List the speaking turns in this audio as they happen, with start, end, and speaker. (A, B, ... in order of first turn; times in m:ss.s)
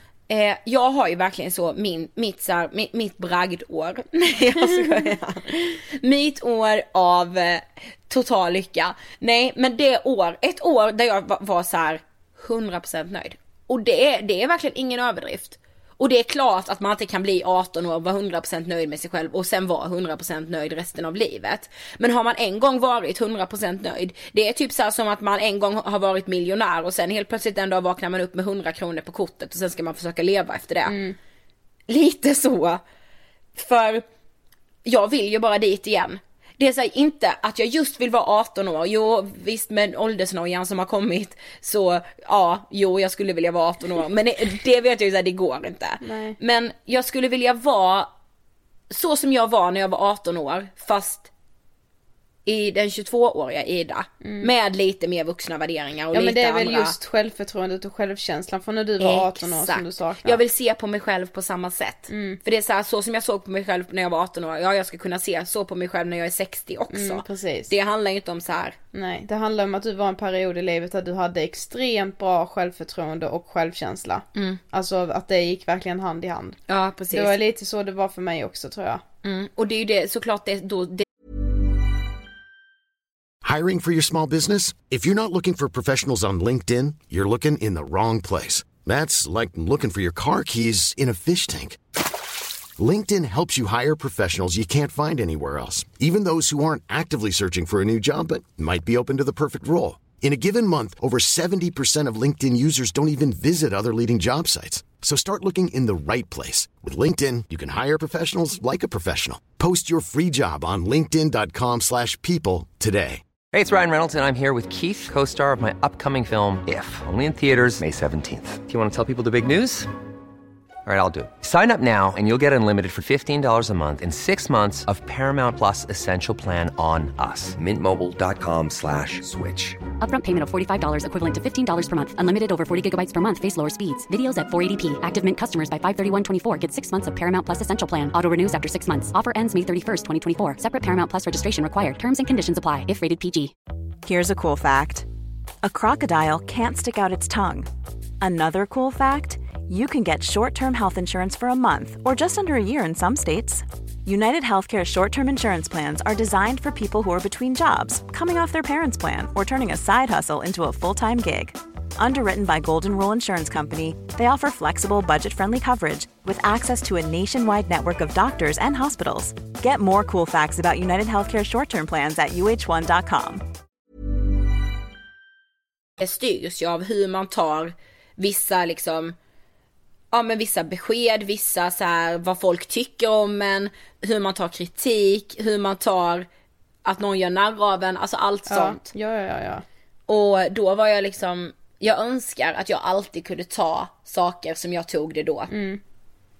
0:00.3-0:31.0 A
0:30.8-0:31.2 B
0:31.9-0:32.8 A
0:33.6-0:34.0 A
0:34.8-0:48.1 A
0:46.0-0:46.4 B
0:48.9-0:51.3 A
0:52.4-0:56.9 A
0:54.2-0:54.5 B
0:56.1-1:00.4 B
0:59.0-1:08.8 A
1:02.1-1:02.4 B
1:06.9-1:07.7 B
1:08.9-1:16.6 B
1:14.4-1:14.6 A
1:16.7-1:17.4 A
1:17.1-1:19.0 B
1:19.2-1:21.0 A
1:23.4-1:31.8 C
1:32.8-1:53.2 C
1:53.5-1:59.9 D
2:00.8-2:09.8 D
2:10.0-2:23.5 E
2:24.0-2:25.1 F
2:25.6-2:27.7 F
2:28.2-2:53.4 F
2:56.0-2:59.2 A
3:00.1-3:06.2 A
3:06.8-3:08.9 A
3:08.5-3:09.6 B
3:10.1-3:15.5 A
3:15.5-3:15.8 B